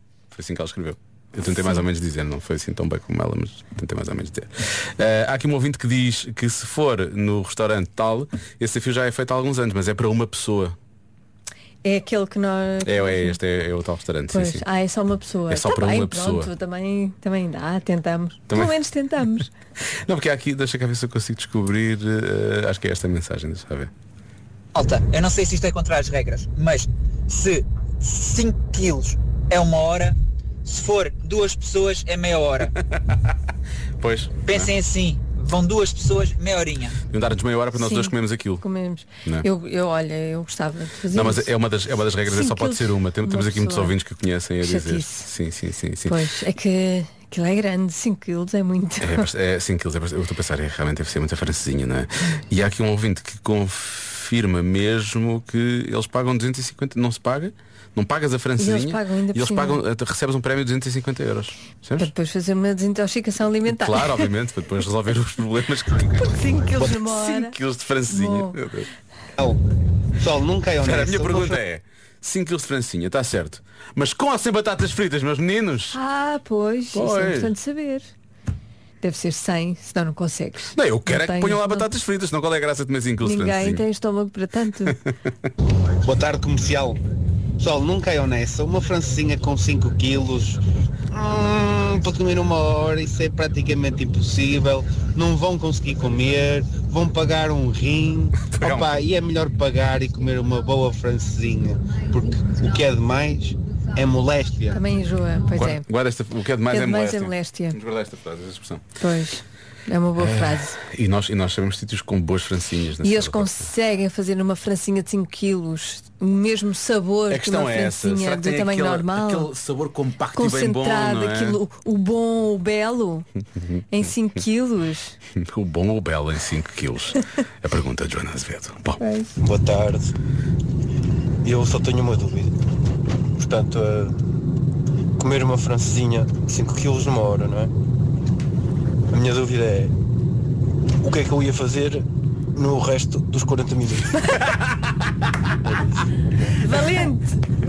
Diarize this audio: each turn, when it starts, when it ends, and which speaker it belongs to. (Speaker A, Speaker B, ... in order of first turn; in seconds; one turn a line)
Speaker A: 0.3-10.7
Speaker B: 11.8-13.4
Speaker A: 12.8-14.6
Speaker B: 14.3-19.5
Speaker A: 15.5-16.5
Speaker A: 18.5-18.7
Speaker A: 20.0-23.9
Speaker C: 24.8-32.7
Speaker A: 32.8-33.4
Speaker A: 34.0-34.7
Speaker C: 34.5-37.0
Speaker A: 37.1-38.6
Speaker B: 37.7-41.5
Speaker A: 41.1-46.2
Speaker B: 42.2-44.0
Speaker B: 44.6-45.3
Speaker B: 46.0-49.3
Speaker A: 49.0-62.1
Speaker B: 58.6-59.8
Speaker B: 62.0-64.3
Speaker A: 63.7-68.9
Speaker B: 66.2-67.6
Speaker B: 68.1-68.6
Speaker D: 70.2-71.6
Speaker A: 70.8-76.0
Speaker B: 75.9-78.1
Speaker A: 76.9-77.5
Speaker B: 79.0-81.9
Speaker A: 80.7-83.8
Speaker B: 83.2-85.0
Speaker D: 86.0-87.0
Speaker D: 87.6-104.8
Speaker A: 98.5-99.0
Speaker B: 104.7-105.9
Speaker A: 105.5-108.8
Speaker B: 106.7-107.8
Speaker B: 109.0-110.8
Speaker A: 110.2-113.7
Speaker B: 113.0-119.5
Speaker A: 117.3-121.6
Speaker B: 120.4-123.3
Speaker B: 123.9-125.2
Speaker A: 125.4-129.0
Speaker B: 129.0-129.4
Speaker E: 129.4-130.1
Speaker E: 131.4-132.5
Speaker E: 133.3-134.1
Speaker E: 135.2-137.7
Speaker E: 139.1-139.9
Speaker E: 141.0-144.3
Speaker B: 146.5-147.4